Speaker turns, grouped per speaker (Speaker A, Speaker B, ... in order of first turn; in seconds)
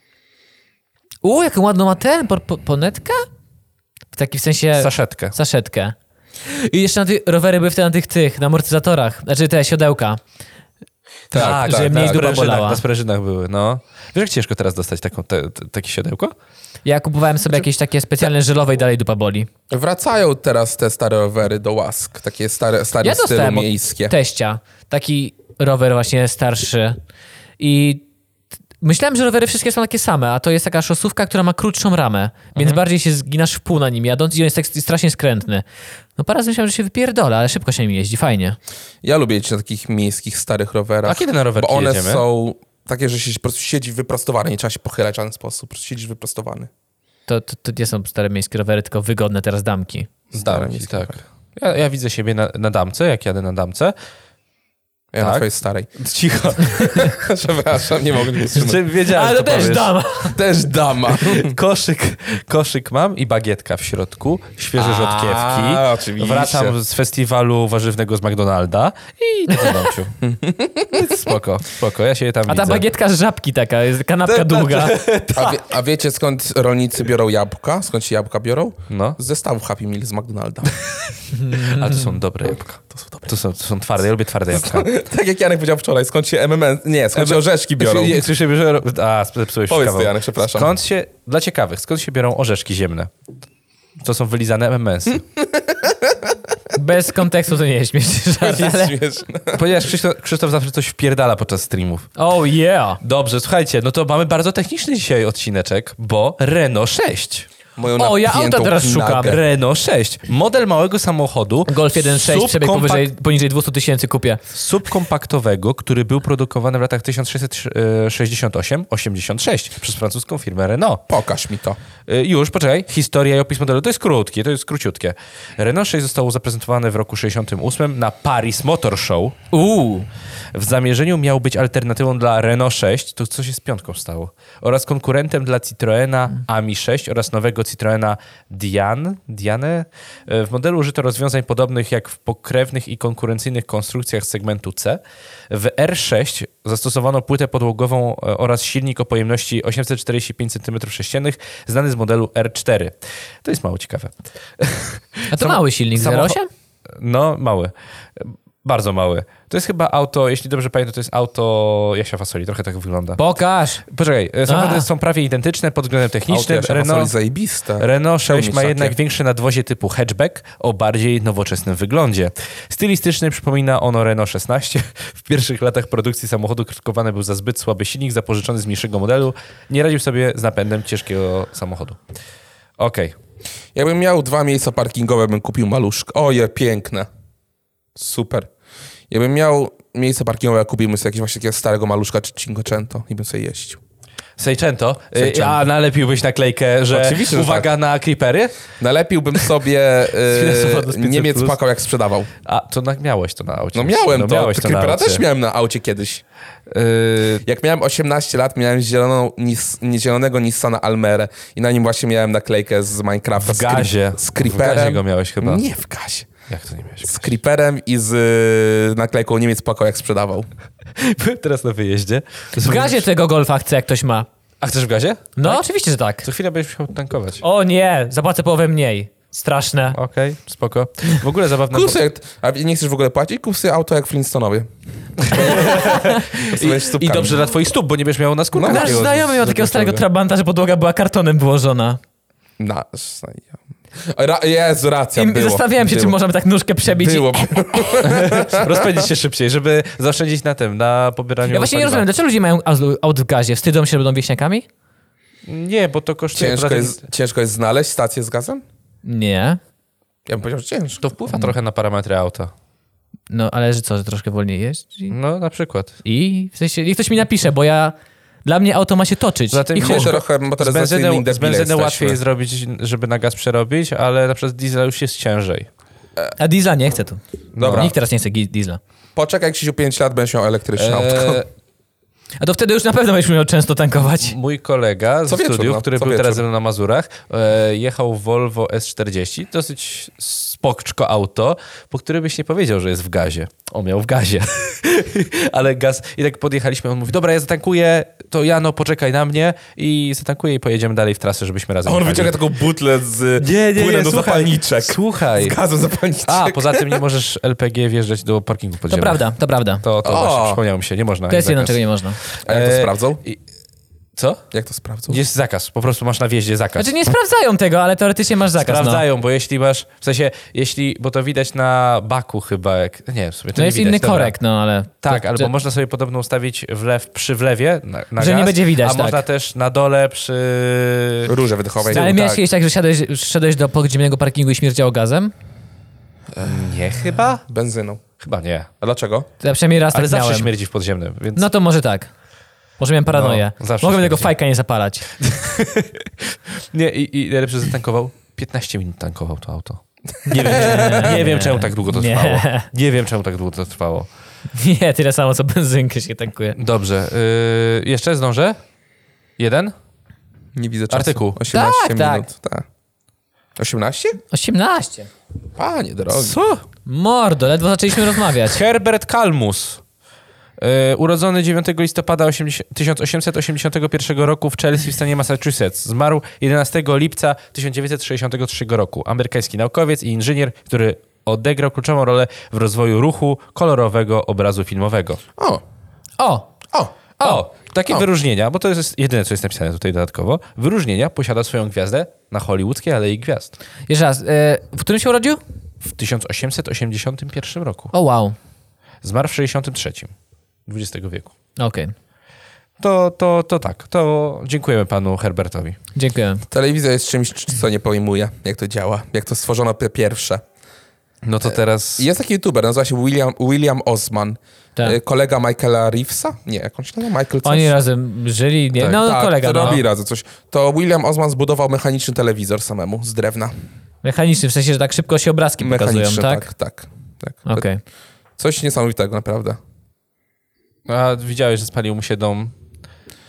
Speaker A: 1.2-3.2, 4.1-10.2, 11.3-12.8, 16.9-19.5, 23.0-27.0, 27.6-28.0, 28.8-35.7, 36.2-38.6, 47.3-50.1, 59.1-60.4, 69.5-69.9, 72.5-75.1, 96.8-99.0, 102.2-103.0, 108.0-109.4, 111.7-114.4, 129.5-130.1, 155.3-156.5, 163.2-163.9, 164.5-164.9, 222.6-224.3, 225.4-226.2, 227.4-230.0, 238.7-242.0, 245.2-247.6, 251.5-254.7, 259.0-259.6, 263.3-265.1, 266.0-270.1, 276.4-278.8, 282.4-284.4, 308.9-309.8, 311.3-312.2, 316.8-319.0, 323.6-325.5, 328.2-329.2, 331.9-335.3, 339.4-340.5, 341.4-342.1, 342.8-345.1, 350.4-352.7, 354.5-356.6, 361.5-362.3, 364.3-365.1, 366.9-368.6, 386.2-386.5, 393.9-395.4, 397.9-398.4, 401.6-401.9, 405.9-406.4, 417.4-419.8, 424.0-426.5, 427.5-427.8
Speaker B: 4.8-5.3, 11.3-16.4, 41.1-42.2, 50.3-54.0, 55.2-57.2, 58.5-59.9, 61.1-70.2, 70.9-72.8, 74.3-75.6, 78.9-79.2, 81.3-85.0, 87.1-93.1, 94.0-95.2, 99.5-102.1, 103.0-107.5, 109.2-113.1, 114.5-121.0, 122.1-129.4, 130.5-156.4, 156.9-163.2, 163.9-167.1, 167.8-182.0, 182.8-183.2, 194.4-198.6, 200.3-201.6, 202.4-205.2, 206.7-207.4, 213.4-215.6, 216.5-217.3, 221.0-223.1, 224.6-225.6, 226.2-227.4, 229.9-232.0, 235.2-240.0, 248.0-252.1, 255.5-257.0, 261.0-262.5, 265.1-265.9, 269.5-275.7, 277.5-277.9, 280.8-281.5, 284.2-302.4, 303.4-305.6, 306.3-309.2, 309.8-313.4, 314.2-314.4, 315.1-316.9, 318.6-324.4, 325.0-331.3, 331.9-332.4, 336.4-337.4, 338.2-338.7, 339.9-341.5, 343.1-344.3, 345.2-354.1, 356.6-358.6, 359.4-359.7, 360.9-361.4, 366.1-366.6, 368.4-369.8, 370.6-385.2, 387.2-393.5, 395.8-397.9, 399.0-400.1, 400.7-401.3, 402.8-405.8, 411.2-412.1, 430.9-432.5
Speaker C: 11.3-12.2, 19.7-24.1, 39.0-46.7, 50.3-51.2, 55.1-55.9, 56.6-58.8, 60.2-61.5, 64.8-66.8, 70.2-71.3, 75.3-80.7, 82.9-83.3, 84.5-88.2, 89.7-90.8, 95.4-96.3, 98.4-99.6, 107.8-109.4, 121.1-121.8, 166.3-169.0, 183.8-187.1, 188.0-188.5, 189.1-193.8, 195.2-195.6, 196.9-197.7, 198.8-202.3, 203.7-206.2, 207.4-216.3, 217.1-220.5, 231.7-234.7, 235.2-237.5, 238.5-239.1, 242.6-246.2, 246.9-249.0, 256.4-258.6, 260.3-261.0, 269.8-272.2, 277.6-277.9, 279.2-281.4, 285.3-286.4, 301.9-307.0, 310.1-310.6, 312.4-313.2, 314.5-315.2, 331.3-332.4, 337.5-338.0, 338.8-339.3, 350.5-351.1, 360.6-362.7, 363.6-364.2, 365.6-366.4, 385.4-385.6, 406.5-410.4, 411.4-417.7, 418.9-423.5, 425.6-427.7, 428.4-429.6